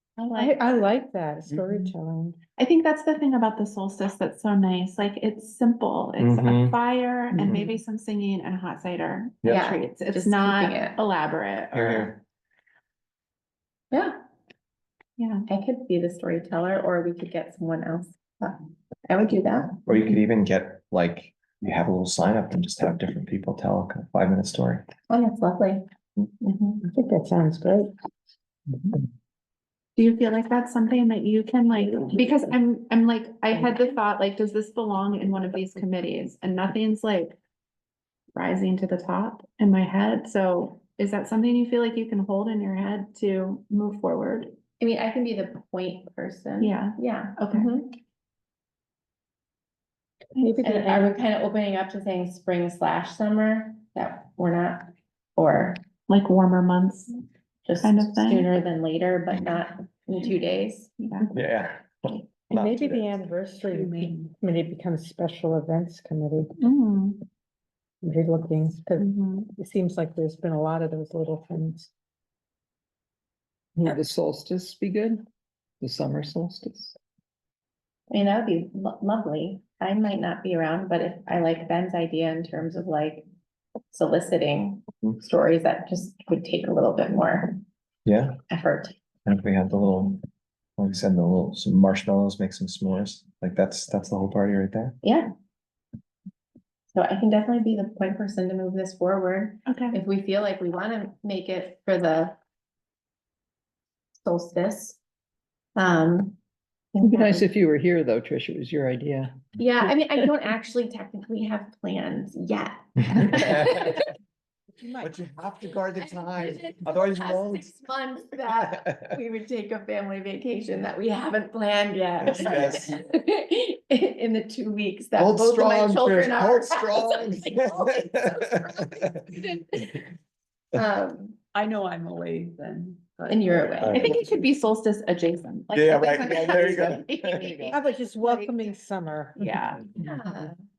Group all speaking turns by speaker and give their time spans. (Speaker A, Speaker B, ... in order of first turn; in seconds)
Speaker A: 0.2-0.9, 2.6-12.2, 15.2-15.4, 30.0-37.4, 38.4-44.5, 46.6-47.7, 56.1-57.2, 57.8-58.5, 61.0-61.3, 66.6-67.2, 69.0-69.5, 99.7-100.0, 133.8-138.7, 139.3-139.9
Speaker B: 0.3-2.4, 26.8-27.9, 50.3-51.2, 62.5-66.5, 68.0-71.9, 137.7-139.5
Speaker C: 6.2-6.8, 7.4-7.7, 11.7-12.2, 19.8-24.9, 61.3-63.3, 88.0-88.4, 89.2-90.2, 90.8-95.0, 113.1-114.0, 115.0-117.7, 118.6-119.0, 122.2-123.0, 125.2-129.1, 133.8-134.1, 135.7-137.4
Speaker D: 9.4-11.0, 15.5-19.8, 25.1-25.8, 26.4-26.8, 44.8-48.0, 50.6-55.9, 57.6-60.9, 78.1-83.2, 83.9-87.6, 88.5-88.9, 95.0-95.3, 96.9-102.4, 104.2-105.0, 105.8-106.4, 106.9-107.4, 109.6-114.0, 116.3-129.9, 130.7-131.4, 133.3-134.1, 139.9-140.5
Speaker E: 63.7-64.3, 131.5-133.9
Speaker F: 73.8-75.2, 75.8-76.9, 107.0-109.4, 136.6-137.7